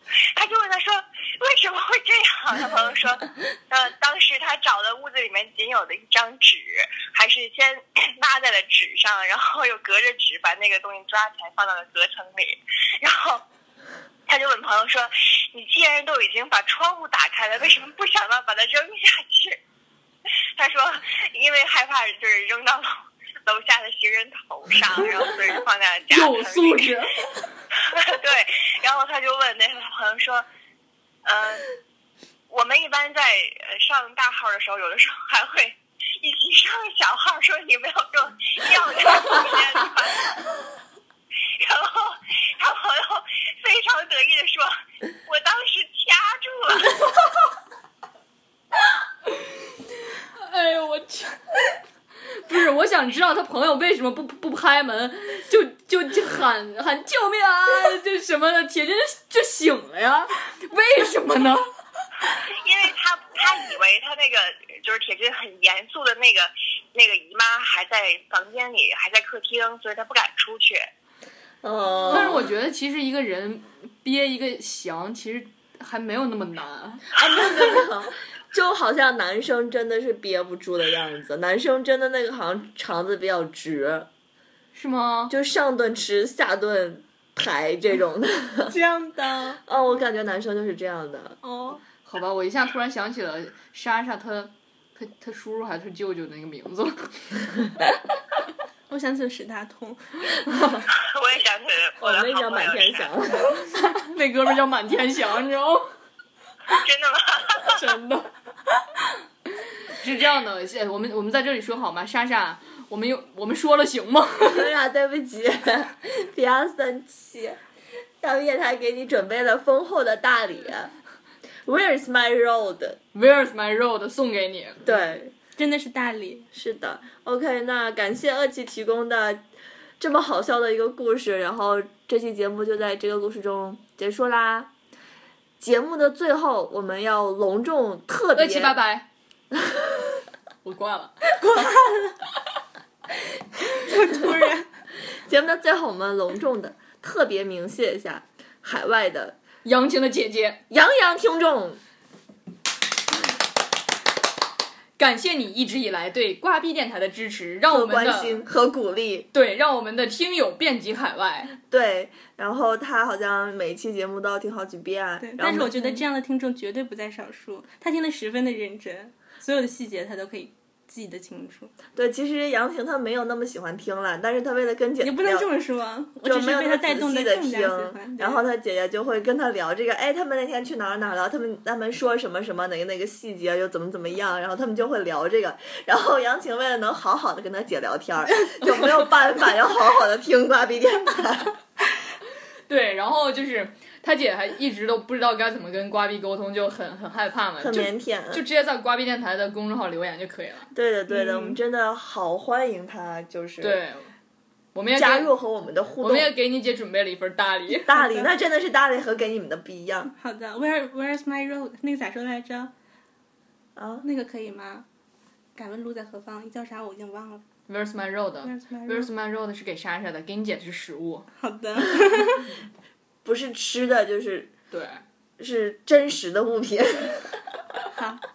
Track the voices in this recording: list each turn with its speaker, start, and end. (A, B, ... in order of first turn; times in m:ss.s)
0:00.4-0:13.4 A
0:14.3-0:19.6 A
0:20.6-0:22.9 A
0:23.5-0:27.0 A
0:26.1-0:27.3 B
0:27.9-0:30.5 A
0:31.2-0:31.6 A
0:32.5-0:40.4 A
0:41.6-0:47.0 A
0:50.4-0:51.4 B
0:52.5-1:01.6 B
1:02.5-1:10.9 A
1:11.6-1:12.5 C
1:12.1-1:17.2 B
1:17.1-1:24.1 C
1:24.7-1:25.3 B
1:25.3-1:28.8 C
1:28.7-1:29.6 D
1:29.6-1:31.4 C
1:31.4-1:31.8 D
1:32.0-1:37.3 B
1:38.9-1:40.2 D
1:41.0-1:43.2 A
1:42.0-1:43.6 C
1:44.0-1:45.9 B
1:46.7-1:47.8 A
1:47.6-1:48.3 B
1:50.0-1:54.7 B
1:54.5-1:57.6 C
1:58.2-2:00.9 C
2:01.7-2:03.0 C
2:03.1-2:04.9 B
2:04.8-2:05.3 C
2:05.6-2:06.5 D
2:06.5-2:09.5 C
2:10.0-2:14.7 C
2:15.6-2:18.8 C
2:18.4-2:19.1 B
2:20.6-2:21.2 B
2:21.4-2:22.1 D
2:23.7-2:24.7 D
2:25.2-2:29.4 C
2:29.6-2:30.6 B
2:30.7-2:31.8 C
2:35.0-2:38.5 B
2:37.7-2:39.3 C
2:39.3-2:41.5 B
2:41.5-2:46.0 C
2:45.2-2:51.8 D
2:52.0-2:55.5 C
2:55.0-2:58.4 D
2:56.2-3:11.5 C
3:12.7-3:20.7 B
3:17.6-3:18.4 C
3:20.7-3:23.8 C
3:21.1-3:21.6 D
3:23.6-3:24.1 B
3:24.8-3:25.3 B
3:24.9-3:26.3 C
3:26.0-3:27.9 B
3:27.7-3:30.1 C
3:27.9-3:28.3 D
3:30.2-3:32.7 D
3:33.8-3:34.1 C
3:34.0-3:34.9 D
3:35.6-3:37.4 D
3:37.7-3:41.3 B
3:38.4-3:39.1 D
3:41.4-3:42.5 D
3:43.2-3:44.5 C
3:44.7-3:45.0 B
3:45.4-3:47.4 C
3:48.0-3:48.2 D